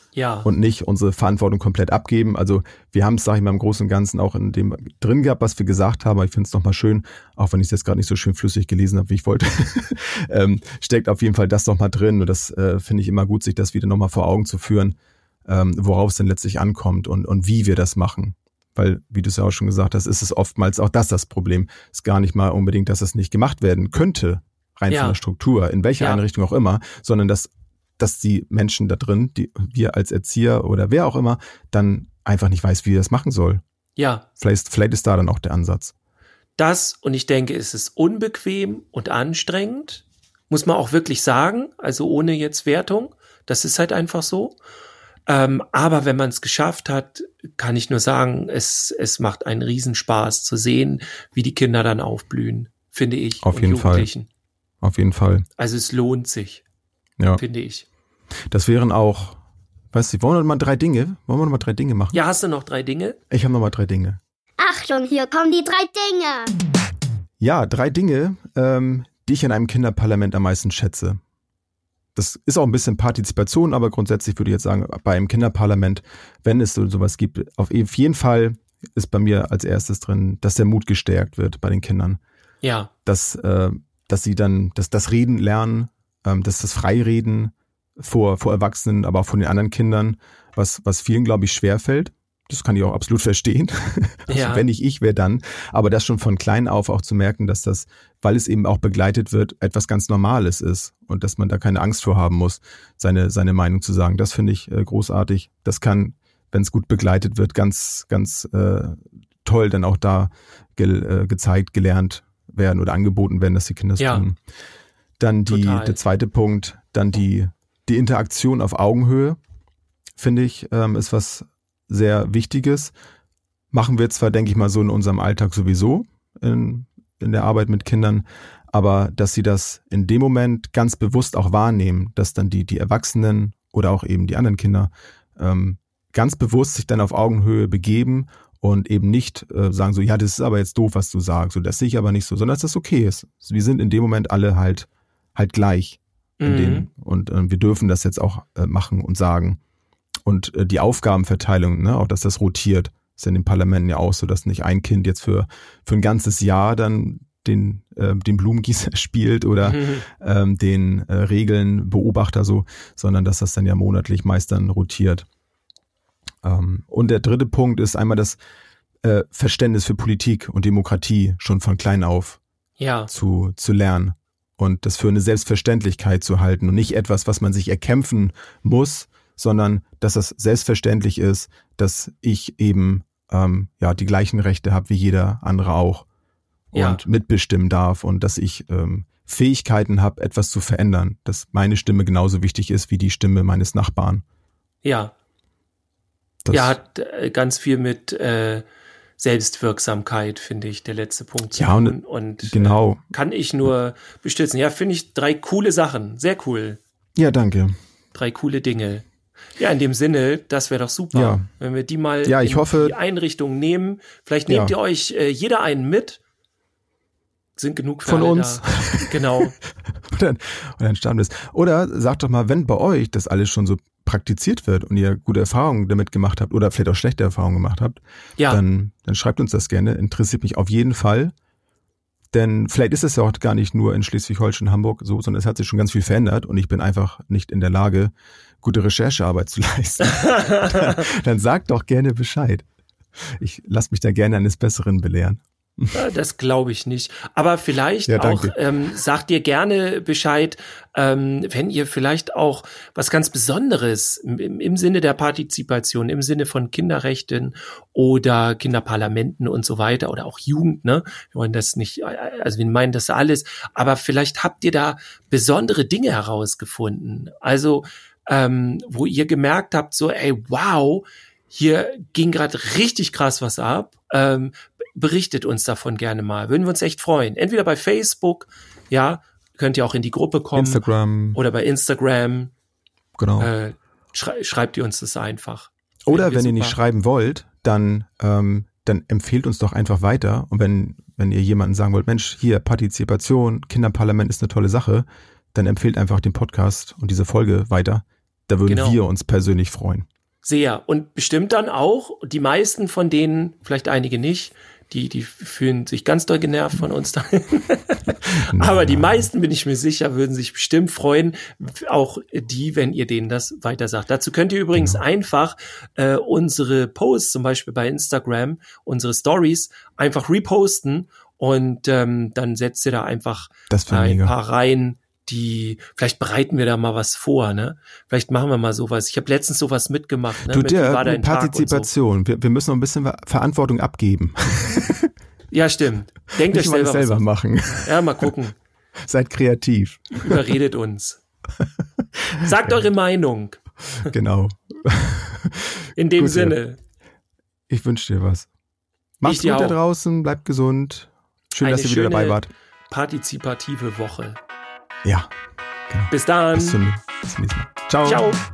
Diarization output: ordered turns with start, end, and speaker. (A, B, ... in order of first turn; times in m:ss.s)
0:00.1-0:00.5 A
0:00.4-0:33.6 B
0:24.9-0:25.2 A
0:34.0-0:34.2 A
0:34.4-0:35.9 B
0:36.6-0:44.6 A
0:45.3-0:54.3 A
0:53.4-0:54.1 B
0:54.8-0:55.4 B
0:55.6-0:56.6 A
0:57.4-0:57.8 A
0:58.5-0:59.4 B
0:59.9-1:02.2 B
1:02.1-1:03.2 A
1:03.3-1:04.2 B
1:04.6-1:06.5 C
1:07.4-1:11.2 B
1:12.1-1:22.2 B
1:22.6-1:22.9 A
1:23.0-1:54.4 B
1:34.3-1:34.6 A
1:54.0-1:54.2 A
1:55.2-1:59.4 B
1:55.5-1:56.0 A
2:00.2-2:02.9 B
2:03.7-2:29.6 B
2:26.4-2:26.9 A
2:30.2-2:45.2 B
2:39.6-2:40.0 A
2:46.4-2:48.4 B
2:49.0-2:52.4 B
2:52.8-2:53.1 A
2:53.1-3:06.0 B
3:06.7-3:14.2 B
3:06.7-3:07.0 A
3:14.8-3:15.1 A
3:16.4-3:16.8 B
3:16.5-3:18.6 A
3:19.2-3:26.8 A
3:21.5-3:23.0 B
3:27.2-3:27.8 B
3:28.1-3:29.0 A
3:29.6-3:36.2 A
3:31.1-3:31.5 B
3:32.2-3:33.0 B
3:34.5-3:34.7 B
3:37.6-3:39.5 A
3:38.0-3:39.5 B
3:40.0-3:51.3 B
3:52.3-4:02.6 B
4:00.1-4:01.0 A
4:03.2-4:05.9 B
4:05.9-4:40.8 A
4:08.1-4:08.6 B
4:40.6-4:41.4 B
4:41.3-4:42.5 A
4:43.2-4:43.5 B
4:43.4-4:46.8 A
4:46.0-5:00.1 B
4:58.6-4:59.0 A
5:00.4-5:31.9 A
5:08.5-5:09.2 B
5:14.7-5:15.0 B
5:23.7-5:24.3 B
5:30.5-5:35.1 B
5:35.5-5:38.6 A
5:36.4-5:38.3 B
5:39.0-5:40.4 B
5:40.2-5:41.2 A
5:41.6-5:42.8 B
5:42.4-5:44.1 A
5:44.1-5:46.6 B
5:46.0-5:46.8 A
5:47.7-5:48.5 B
5:49.2-5:52.5 B
5:49.2-5:49.8 A
5:51.6-5:54.4 A
5:55.0-5:55.3 B
5:55.9-5:58.2 B
5:56.1-5:56.8 A
5:58.0-5:58.4 A